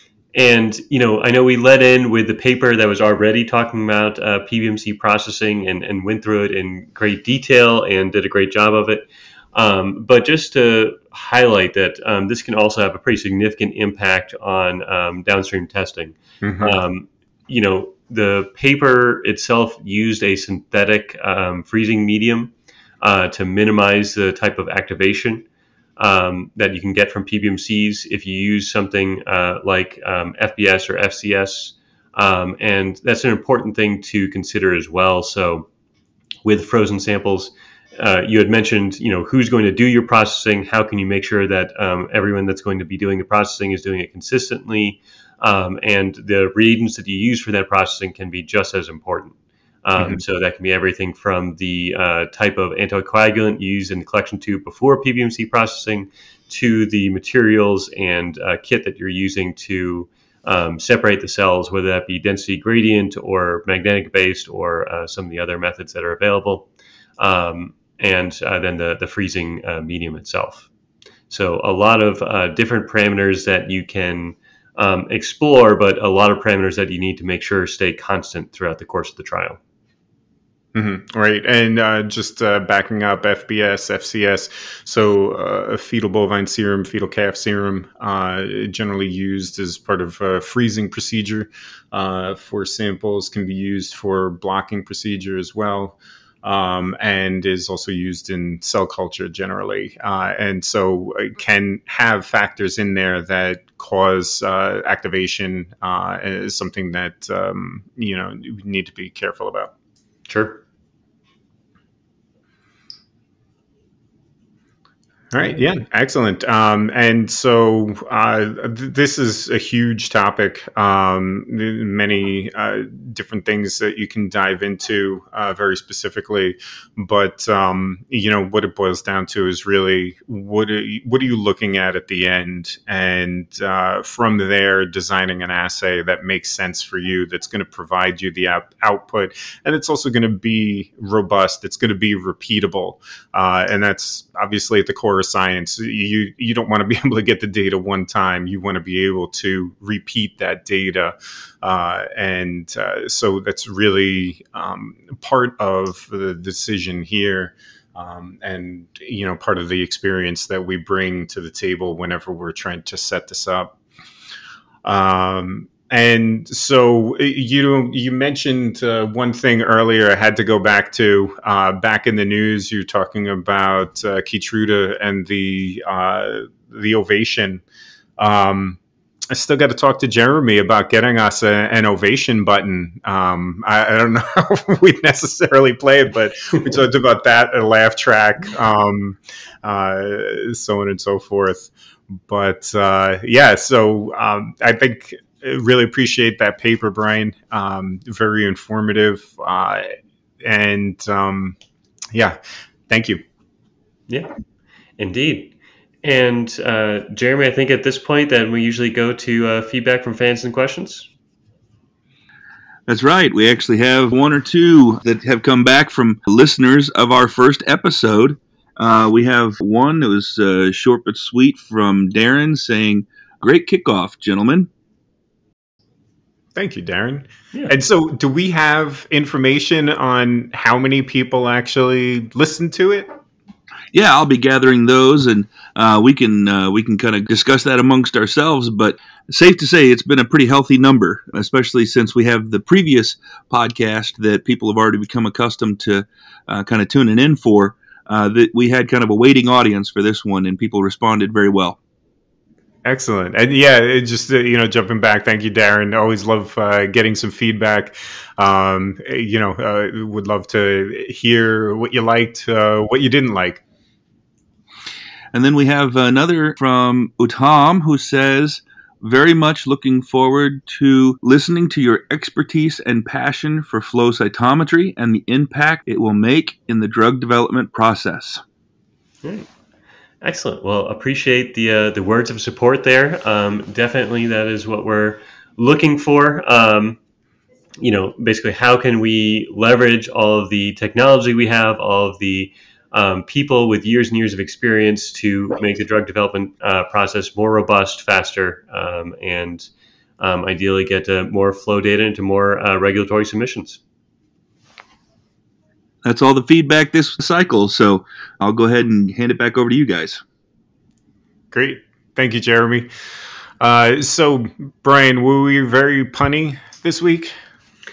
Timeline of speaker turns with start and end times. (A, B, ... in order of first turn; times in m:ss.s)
0:00.3-0:25.4 A
0:16.4-0:16.8 B
0:26.0-0:35.7 A
0:36.4-1:06.7 A
1:07.2-1:10.7 A
1:11.3-1:19.6 A
1:20.7-1:49.7 B
1:50.3-1:50.6 A
1:55.3-2:43.7 B
2:44.8-2:57.6 B
2:58.2-2:58.8 B
2:59.3-3:11.7 B
3:12.2-3:19.9 B
3:20.4-3:21.6 B
3:22.9-3:23.2 B
3:25.0-3:25.5 A
3:26.0-3:31.1 A
3:32.9-3:44.7 C
3:46.5-3:53.1 B
3:53.9-4:11.8 C
4:12.8-4:23.6 B
4:25.3-4:38.4 C
4:40.2-4:47.0 A
4:47.8-4:59.7 A
5:00.2-5:03.8 A
5:06.0-5:10.2 C
5:11.5-5:12.9 B
5:13.6-5:17.3 B